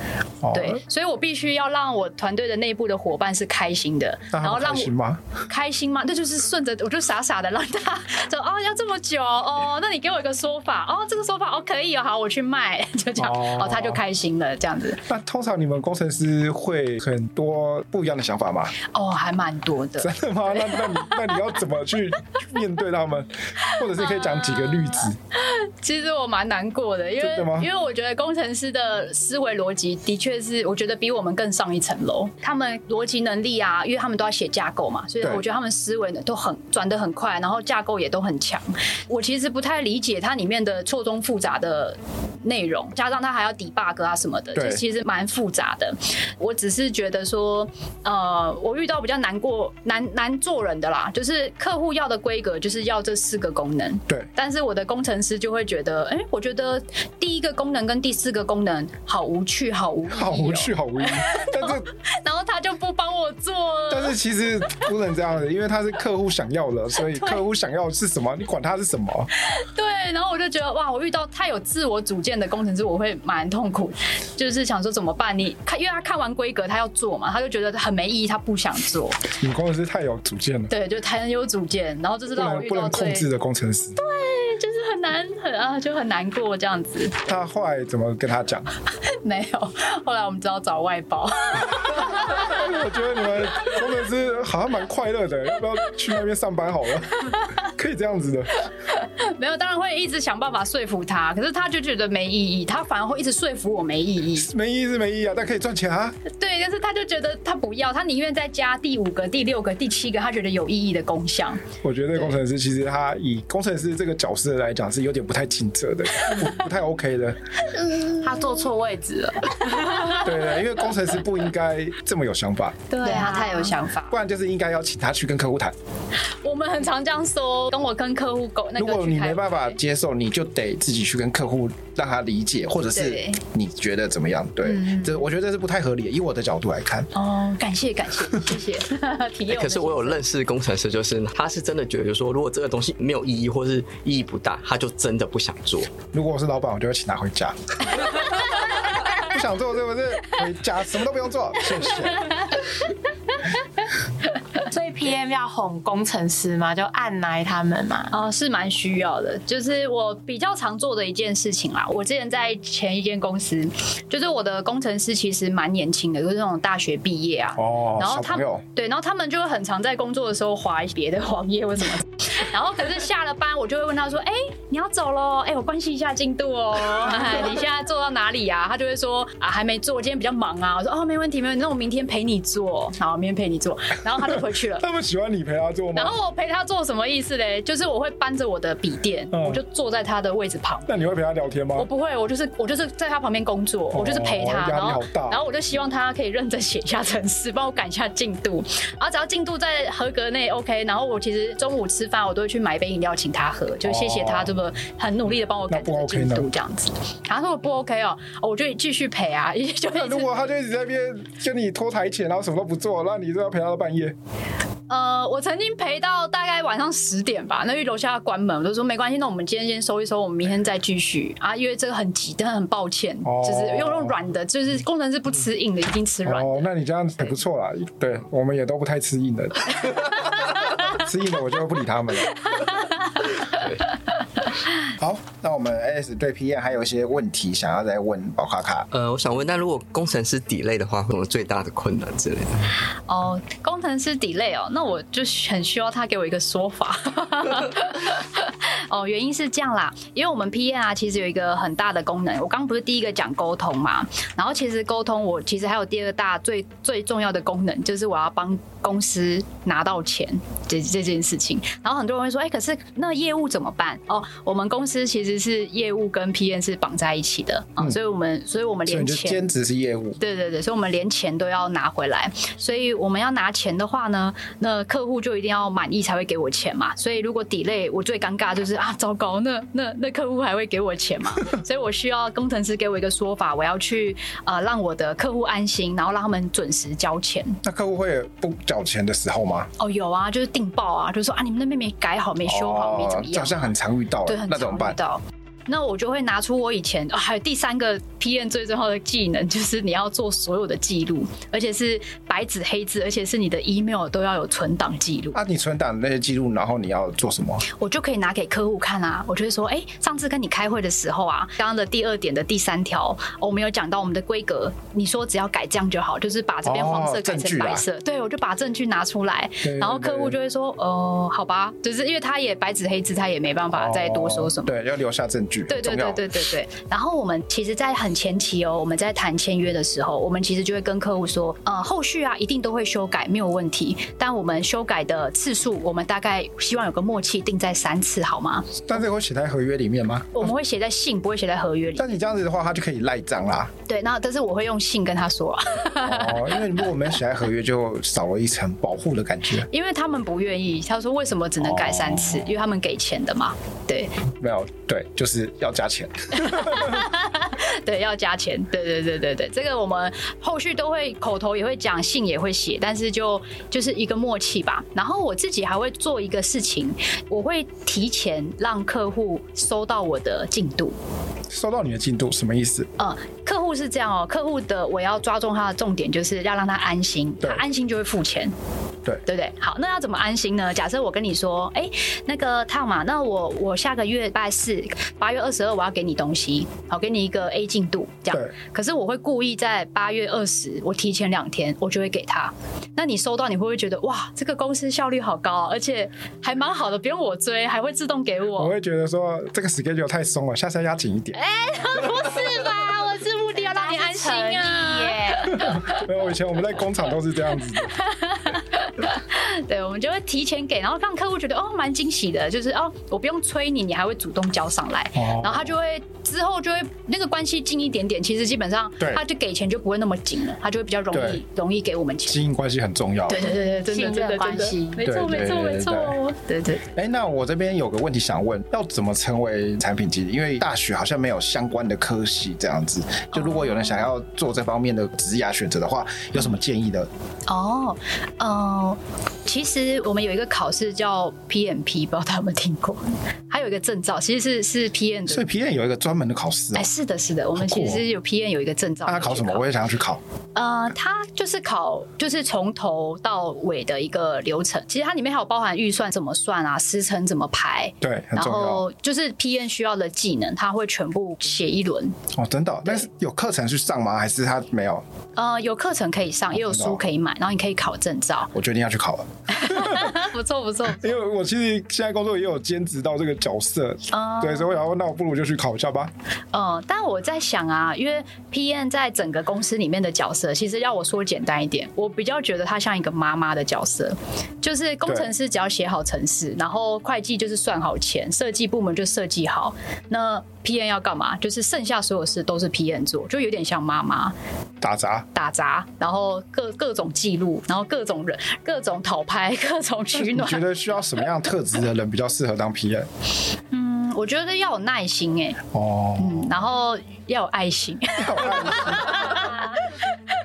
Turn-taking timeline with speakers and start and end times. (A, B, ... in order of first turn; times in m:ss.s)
0:00.4-0:00.8 A
0:00.5-0:04.9 B
0:04.3-0:05.2 A
0:05.5-0:15.0 B
0:13.2-0:14.0 A
0:15.1-0:18.8 A
0:18.8-0:21.2 B
0:20.0-0:25.2 A
0:23.7-1:04.2 B
0:27.2-0:27.7 A
0:44.5-0:44.8 A
1:00.1-1:01.9 A
1:03.9-1:09.3 A
1:07.0-1:07.4 B
1:09.4-1:19.2 B
1:19.4-1:20.7 A
1:20.7-1:23.3 B
1:22.3-1:24.0 A
1:24.0-1:27.2 B
1:27.2-1:28.7 A
1:29.1-1:32.7 B
1:31.7-1:38.5 A
1:38.9-1:44.5 B
1:44.4-1:46.2 A
1:46.2-1:51.6 B
1:51.8-1:57.4 A
1:58.2-2:00.3 C
2:00.1-2:02.9 A
2:02.9-2:03.8 C
2:03.0-2:04.1 B
2:04.1-2:05.7 A
2:06.4-2:09.8 B
2:08.8-2:17.1 A
2:12.9-2:13.4 B
2:14.6-2:15.2 B
2:17.1-2:20.2 B
2:19.5-2:25.9 D
2:26.1-2:32.6 A
2:34.6-2:38.1 C
2:38.1-3:04.8 B
2:47.6-2:48.6 A
3:04.8-3:06.2 A
3:05.9-3:10.9 B
3:09.3-3:09.6 A
3:10.9-3:11.9 A
3:11.7-3:30.5 B
3:13.9-3:15.4 A
3:23.8-3:24.6 A
3:25.7-3:26.5 A
3:29.9-3:34.2 A
3:34.9-3:46.6 B
3:43.2-3:44.2 A
3:46.2-3:50.3 A
3:50.8-3:52.4 A
3:53.5-3:53.8 D
3:54.9-3:58.9 A
3:58.9-4:02.7 D
4:03.1-4:29.5 B
4:28.9-4:30.2 A
4:30.2-4:47.6 B
4:47.6-4:49.7 A
4:49.8-4:53.6 B
4:52.4-4:55.0 A
4:54.2-5:05.4 B
5:05.3-5:07.6 A
5:07.6-5:24.7 B
5:16.6-5:17.8 A
5:19.6-5:20.4 A
5:23.7-5:26.2 A
5:25.7-5:38.9 B
5:38.9-5:40.5 A
5:40.3-5:42.2 B
5:42.0-5:43.7 A
5:43.9-5:46.8 B
5:46.0-5:49.7 A
5:49.6-5:54.1 B
5:51.6-5:52.6 A
5:54.4-5:57.0 A
5:56.3-6:11.0 B
6:11.5-6:12.9 A
6:13.0-6:18.5 B
6:19.2-6:38.7 B
6:38.6-6:41.4 A
6:41.3-6:46.0 B
6:43.6-6:45.7 C
6:45.5-6:47.9 A
6:47.9-7:02.4 B
6:55.2-6:55.7 A
7:01.1-7:01.4 A
7:02.3-7:03.5 A
7:03.3-7:06.9 B
7:03.4-7:05.0 C
7:05.0-7:06.2 A
7:06.9-7:17.1 A
7:13.3-7:14.1 B
7:17.5-7:25.4 B
7:25.3-7:26.9 A
7:26.7-7:29.6 B
7:27.5-7:28.0 A
7:29.0-7:30.2 A
7:30.5-7:42.2 B
7:38.0-7:38.8 A
7:42.3-7:45.0 A
7:45.4-7:48.5 B
7:46.5-7:47.0 A
7:48.5-7:50.2 A
7:49.5-7:51.1 B
7:50.9-7:56.1 A
7:54.1-7:54.8 B
7:56.5-8:14.3 B
8:14.8-8:15.3 A
8:15.3-8:20.6 B
8:20.1-8:23.1 A
8:23.7-8:25.6 B
8:25.7-8:26.6 A
8:26.2-8:30.0 B
8:28.2-8:29.5 A